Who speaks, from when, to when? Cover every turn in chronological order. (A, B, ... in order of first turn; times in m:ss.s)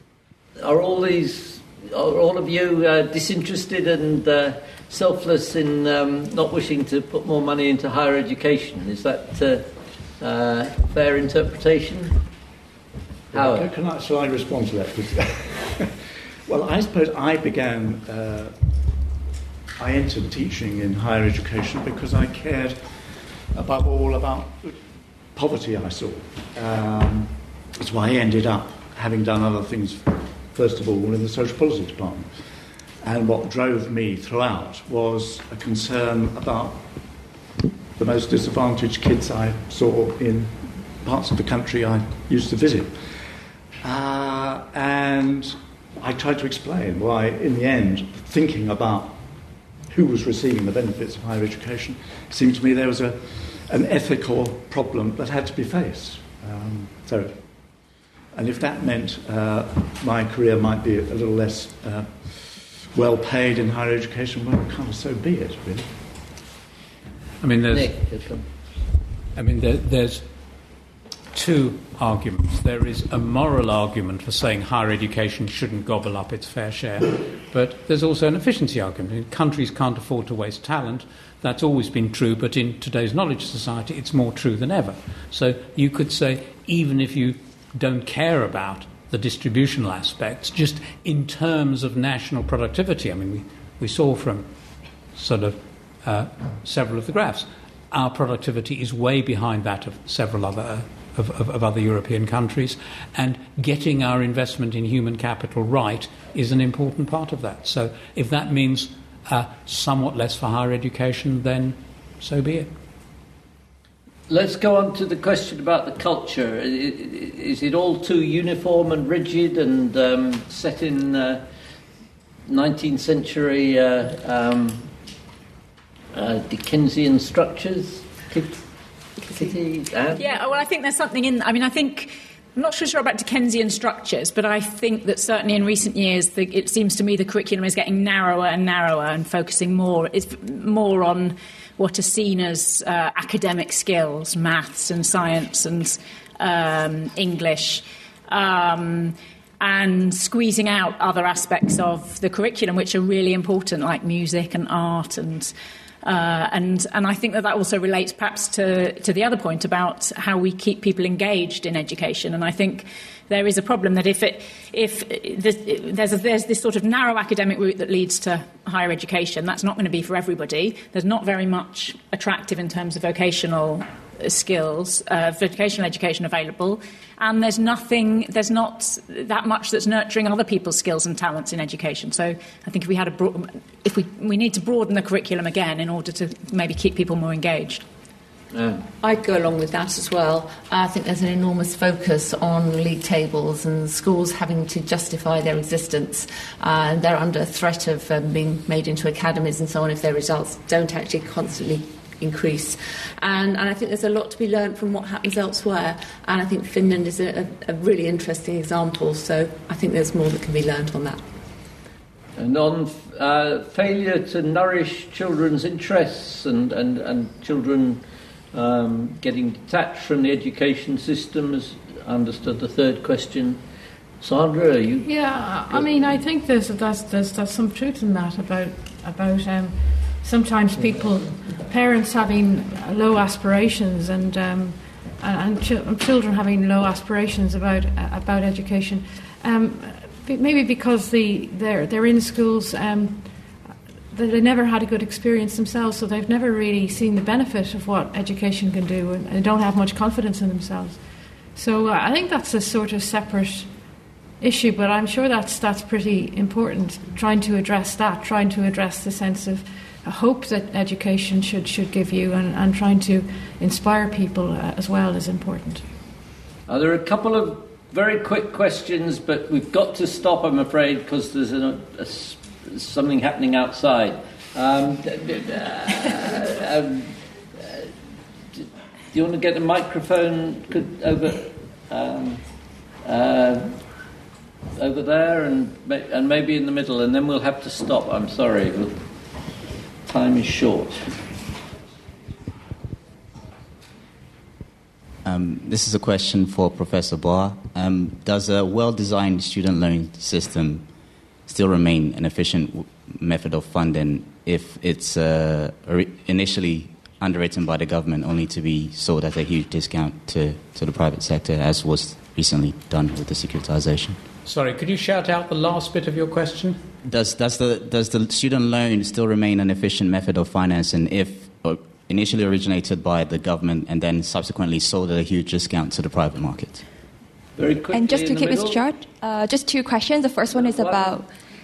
0:00.6-0:09.7 A
0:10.2-0:12.2 A
0:13.3-0:15.9 B
0:13.3-0:13.7 A
0:16.5-0:18.5 B
0:19.8-0:22.8 B
0:23.5-0:24.7 B
0:25.3-0:32.3 B
0:33.0-0:36.9 B
0:38.0-0:42.9 B
0:43.8-0:49.2 B
0:49.9-0:57.4 B
0:58.3-1:05.9 B
1:07.4-1:07.9 C
1:07.7-1:08.4 A
1:09.3-1:10.3 C
1:11.3-1:34.5 C
1:35.1-1:52.7 C
1:54.3-2:01.4 A
2:02.5-2:04.9 A
2:06.1-2:08.6 A
2:09.2-2:10.2 A
2:10.2-3:07.8 D
3:08.5-3:08.9 A
3:09.0-3:31.2 E
3:32.4-3:38.0 A
3:38.5-3:43.6 A
3:44.2-3:45.1 A
3:45.0-4:03.3 F
4:04.1-4:11.0 F
4:11.5-4:13.7 F
4:14.4-4:25.8 F
4:26.7-4:37.1 A
4:37.6-4:37.9 A
4:38.6-4:42.4 A
4:43.0-4:43.8 A
4:44.8-4:49.0 A
4:50.0-4:51.1 A
4:55.2-5:00.9 G
5:01.5-5:14.2 G
5:14.4-5:16.8 C
5:17.0-5:26.8 G
5:27.6-5:28.8 A
5:27.9-5:31.2 H
5:30.5-5:31.2 A